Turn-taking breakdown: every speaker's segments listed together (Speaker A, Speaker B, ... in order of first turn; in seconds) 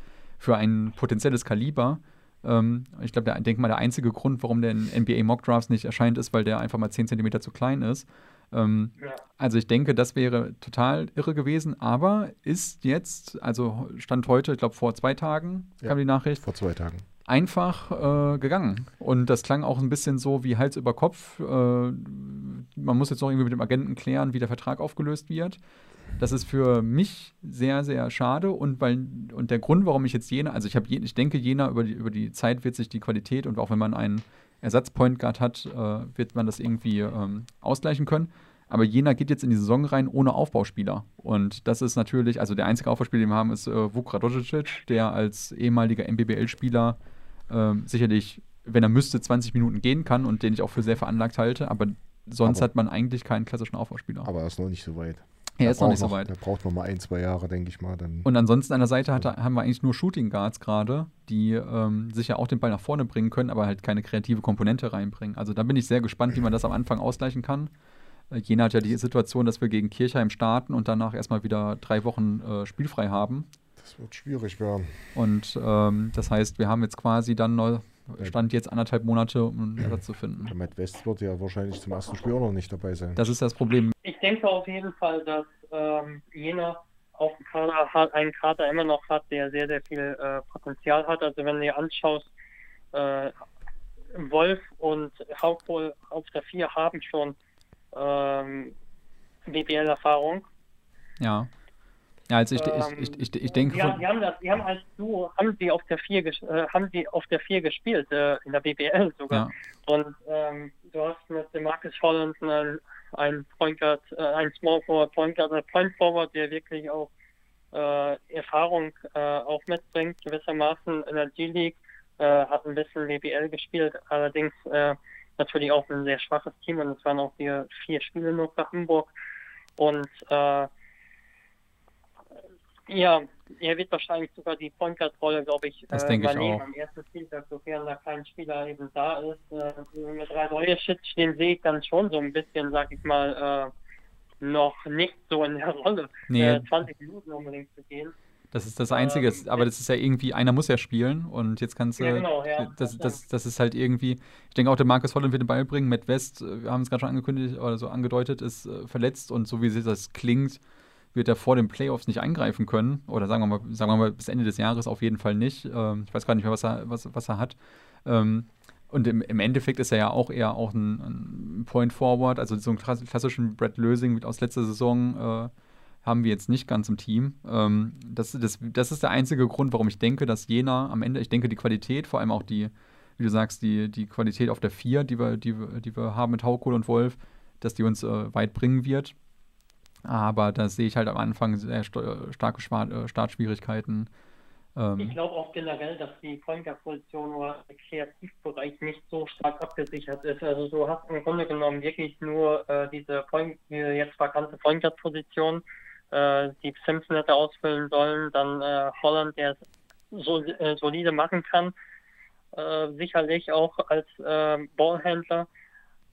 Speaker A: 0.4-16.5, 17.2-25.6, 26.1-47.0, 47.5-54.3, 55.6-56.3, 58.2-67.7, 68.3-73.5, 75.2-80.5, 83.2-84.0, 101.2-101.5, 102.3-104.0, 135.9-136.7, 146.3-146.7, 148.5-160.6, 161.1-175.5, 176.0-189.2, 190.1-194.1, 194.8-195.2
Speaker B: 15.8-17.0, 54.2-58.3, 73.8-75.0, 79.8-83.2
Speaker C: 84.0-92.3, 92.9-93.3, 94.1-97.4, 97.9-98.8, 99.5-100.5, 102.6-117.1, 117.7-129.1, 129.8-130.7, 132.9-143.7, 144.4-148.1, 148.9-149.7, 152.0-153.2, 195.0-211.8, 212.5-215.5